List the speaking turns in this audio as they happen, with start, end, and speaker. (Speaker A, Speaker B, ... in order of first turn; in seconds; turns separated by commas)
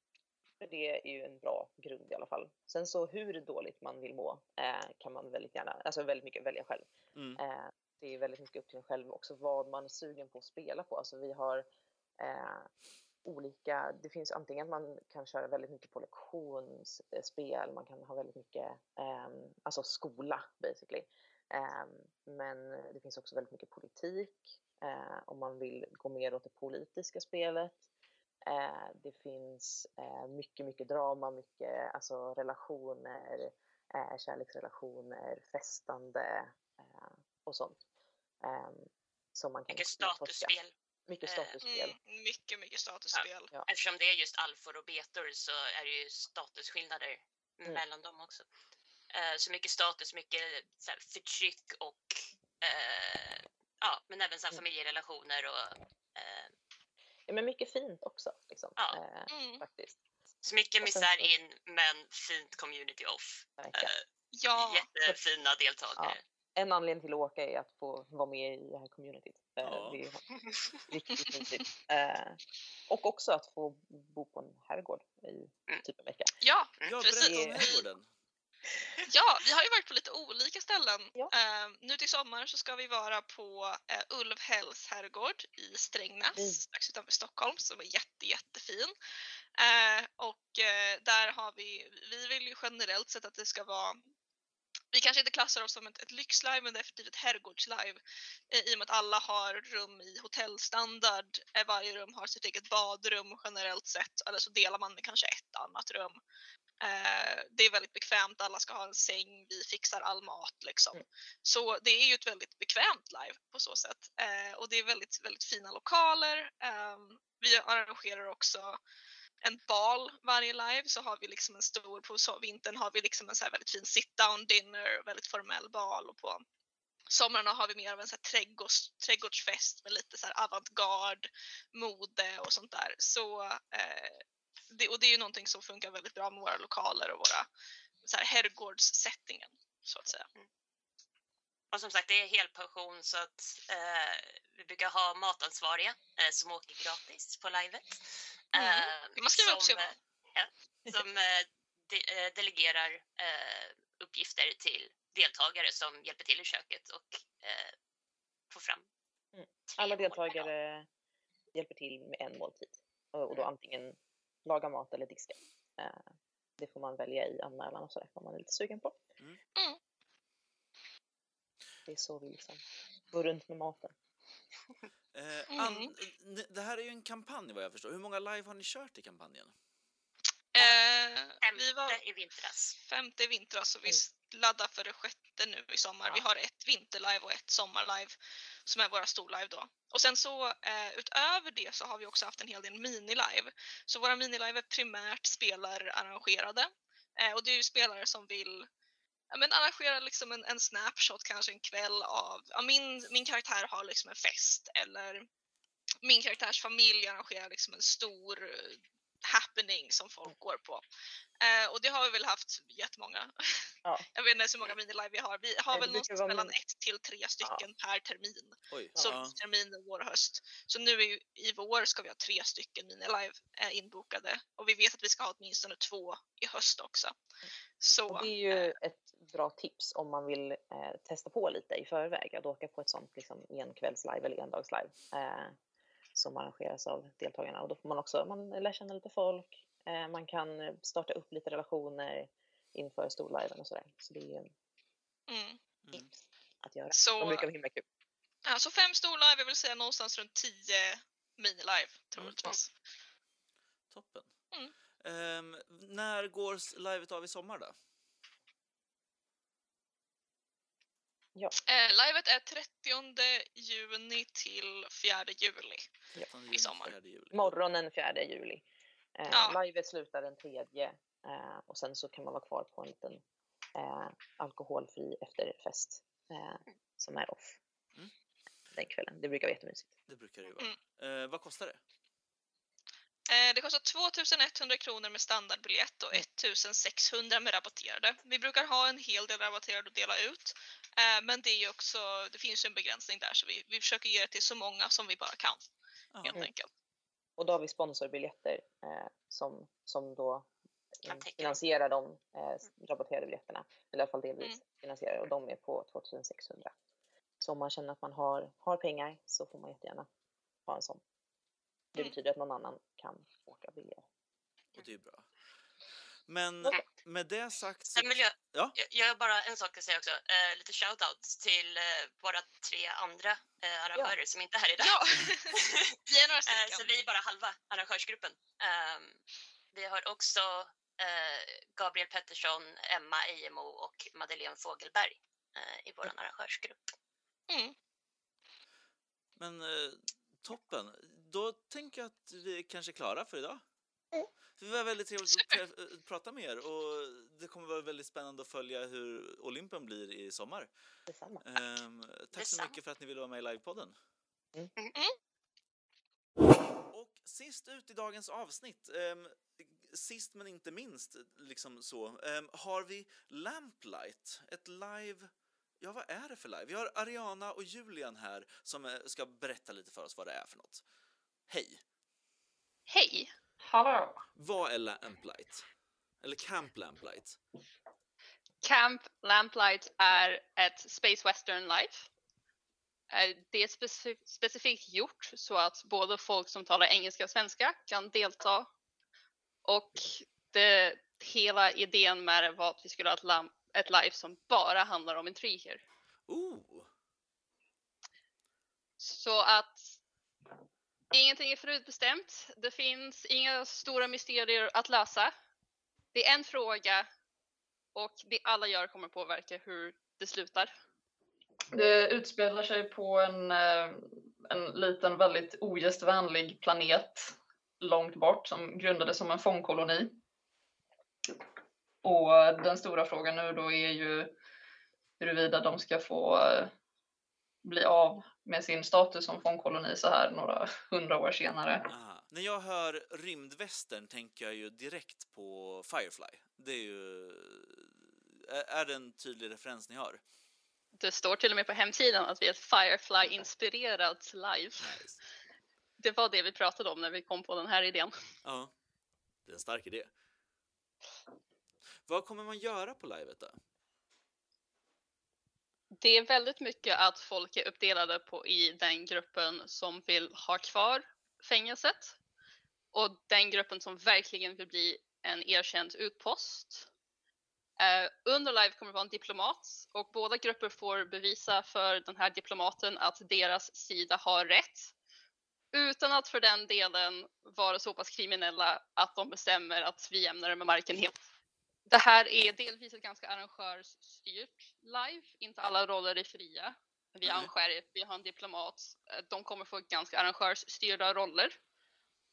Speaker A: 0.6-11.7, Speaker B: 7.1-7.4, Speaker A: 12.2-12.7, Speaker A: 13.2-27.9, Speaker A: 28.5-37.8, Speaker A: 38.4-42.0, Speaker C: 39.7-40.7, Speaker C: 41.2-41.6, Speaker D: 41.6-43.5, Speaker C: 43.1-48.5, Speaker C: 49.1-56.5, Speaker A: 57.3-60.0, Speaker D: 59.3-59.6, Speaker C: 60.4-66.2, Speaker A: 60.8-61.3, Speaker A: 63.6-63.9, Speaker D: 64.3-64.8, Speaker A: 66.0-70.2, Speaker B: 69.6-70.0, Speaker A: 70.9-76.3, Speaker D: 71.2-71.7, Speaker D: 76.4-77.7, Speaker B: 76.8-78.1, Speaker A: 77.2-77.6, Speaker D: 79.1-88.9, Speaker A: 86.3-86.6, Speaker D: 89.6-94.0, Speaker D: 94.9-106.2, Speaker D: 106.8-118.8, Speaker D: 119.4-126.4, Speaker D: 127.1-137.5, Speaker D: 138.0-140.3, Speaker C: 141.7-148.0, Speaker C: 148.5-157.7, Speaker D: 148.5-149.9, Speaker C: 158.5-158.8, Speaker A: 159.3-160.9, Speaker C: 159.8-160.5, Speaker A: 161.5-166.0, Speaker A: 166.6-169.0, Speaker A: 171.9-173.9, Speaker B: 175.1-179.5, Speaker D: 175.5-175.9, Speaker D: 180.5-182.0, Speaker C: 181.4-182.8, Speaker D: 182.8-188.1, Speaker D: 188.7-198.7, Speaker D: 199.3-205.2, Speaker D: 206.0-210.8, Speaker D: 211.4-227.2, Speaker A: 215.7-216.5, Speaker B: 218.7-219.3, Speaker D: 227.8-228.7, Speaker A: 228.1-235.6, Speaker A: 236.1-244.5, Speaker D: 245.3-245.6, Speaker A: 246.6-247.8, Speaker D: 246.9-247.4, Speaker D: 248.4-252.7, Speaker B: 253.9-254.3, Speaker B: 255.0-257.7, Speaker D: 261.6-265.8, Speaker B: 266.2-267.5, Speaker D: 266.5-266.9, Speaker A: 267.3-268.6, Speaker A: 269.1-273.2, Speaker D: 269.3-269.6, Speaker A: 273.7-277.6, Speaker A: 278.7-279.9, Speaker B: 280.1-281.8, Speaker D: 283.3-295.6, Speaker B: 296.1-296.5, Speaker D: 296.2-296.7, Speaker A: 297.4-300.5, Speaker A: 301.0-306.7, Speaker C: 301.1-301.6, Speaker A: 307.4-310.1, Speaker A: 310.7-311.0, Speaker A: 311.9-314.0, Speaker B: 314.7-315.3, Speaker B: 316.3-318.7, Speaker C: 317.9-325.0, Speaker D: 324.8-325.4, Speaker C: 325.6-329.2, Speaker D: 326.1-326.9, Speaker C: 329.7-336.9, Speaker D: 337.5-337.7, Speaker B: 339.4-343.6, Speaker B: 344.6-350.7, Speaker A: 351.1-351.5, Speaker B: 351.4-353.9, Speaker C: 352.3-352.7, Speaker B: 356.9-365.3, Speaker B: 365.8-370.8, Speaker B: 371.5-371.8, Speaker E: 372.9-373.3, Speaker F: 373.6-374.2, Speaker B: 374.3-375.6, Speaker B: 376.2-377.4, Speaker E: 378.6-382.1, Speaker E: 383.1-388.7, Speaker E: 389.6-395.8, Speaker B: 396.3-396.9, Speaker E: 399.0-399.9, Speaker E: 401.1-405.3, Speaker E: 406.1-407.1, Speaker E: 407.9-410.7, Speaker F: 411.7-420.1, Speaker F: 422.0-424.3, Speaker F: 425.2-426.7, Speaker F: 427.6-431.9, Speaker B: 431.9-440.2, Speaker E: 440.9-445.0, Speaker B: 444.8-445.2, Speaker E: 446.0-448.1, Speaker B: 448.4-448.7, Speaker B: 449.4-450.1, Speaker B: 452.1-453.6, Speaker E: 456.0-462.2, Speaker E: 462.9-466.9, Speaker E: 467.8-474.9, Speaker E: 475.7-481.2, Speaker E: 481.9-491.6, Speaker B: 487.2-487.5